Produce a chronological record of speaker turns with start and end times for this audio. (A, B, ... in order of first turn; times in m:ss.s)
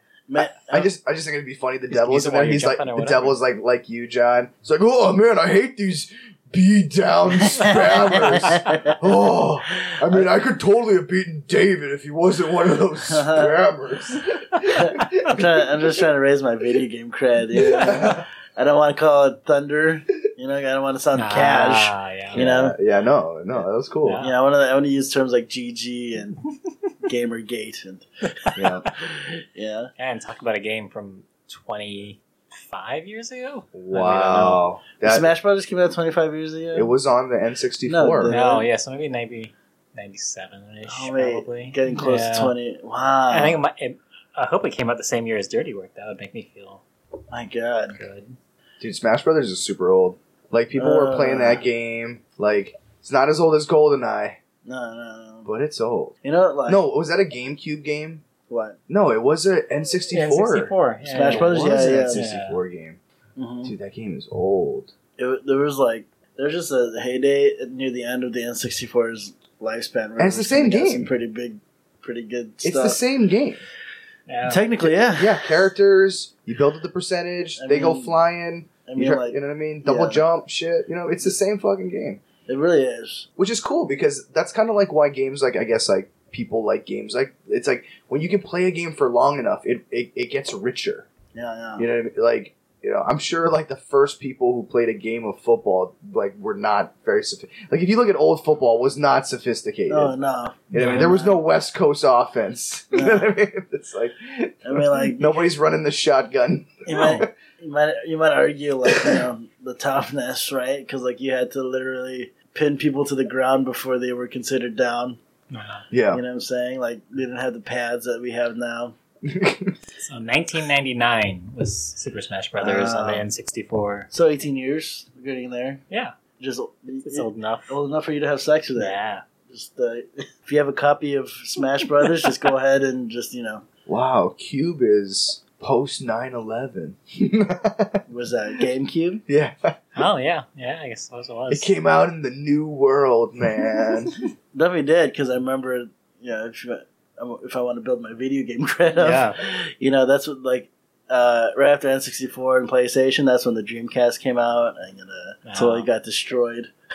0:00.3-0:00.9 A
0:00.7-0:15.9 B
0:01.9-0:03.4 C
0:07.4-0:08.9 A
0:08.5-0:08.8 C
0:13.1-0:13.5 A
0:14.7-0:22.8 A
0:17.6-0:18.2 B
0:21.2-0:22.4 C
0:22.3-0:24.2 B
0:24.0-0:24.4 C
0:24.2-0:26.4 A
0:27.0-0:28.1 A
0:28.5-0:28.9 C
0:28.6-0:28.9 B
0:29.1-0:29.9 A
0:30.0-0:34.6 C
0:33.7-0:35.3 B
0:35.0-0:36.9 A
0:36.7-0:38.4 B
0:37.9-0:38.7 A
0:38.3-0:42.6 C
0:40.8-0:43.6 A
0:43.3-0:46.8 C
0:47.3-0:48.0 A
0:47.9-0:48.4 C
0:48.8-0:54.4 B
0:50.7-0:51.7 A
0:54.6-0:55.5 A
0:55.4-0:56.2 B
0:56.2-0:56.8 A
0:56.7-0:58.2 B
0:58.5-0:58.8 A
0:58.9-1:03.0 B
1:00.1-1:02.6 C
1:01.0-1:02.2 A
1:03.4-1:03.7 A
1:03.6-1:04.9 B
1:05.2-1:13.0 A
1:10.2-1:11.1 B
1:12.6-1:13.6 B
1:14.3-1:14.7 C
1:14.5-1:15.5 A
1:14.8-1:22.2 B
1:17.6-1:18.2 A
1:18.9-1:20.3 A
1:22.5-1:23.3 A
1:23.4-1:31.1 B
1:31.3-1:31.8 A
1:31.8-1:40.1 B
1:39.9-1:41.4 A
1:40.7-1:47.3 B
1:40.8-1:41.2 C
1:42.9-1:43.4 A
1:44.6-1:45.5 A
1:46.9-1:55.2 A
1:46.9-1:47.2 C
1:48.9-1:49.3 B
1:55.5-1:55.8 C
1:55.9-1:56.2 B
1:56.1-1:59.0 A
1:59.2-1:59.8 B
2:00.0-2:04.1 C
2:02.6-2:03.3 A
2:04.1-2:05.8 A
2:06.4-2:09.0 A
2:07.0-2:07.7 C
2:08.8-2:09.2 C
2:09.5-2:13.6 A
2:13.9-2:18.0 B
2:18.1-2:19.2 A
2:19.3-2:19.8 B
2:20.0-2:21.7 C
2:21.5-2:24.1 B
2:24.5-2:36.7 A
2:29.0-2:29.4 C
2:35.4-2:35.9 C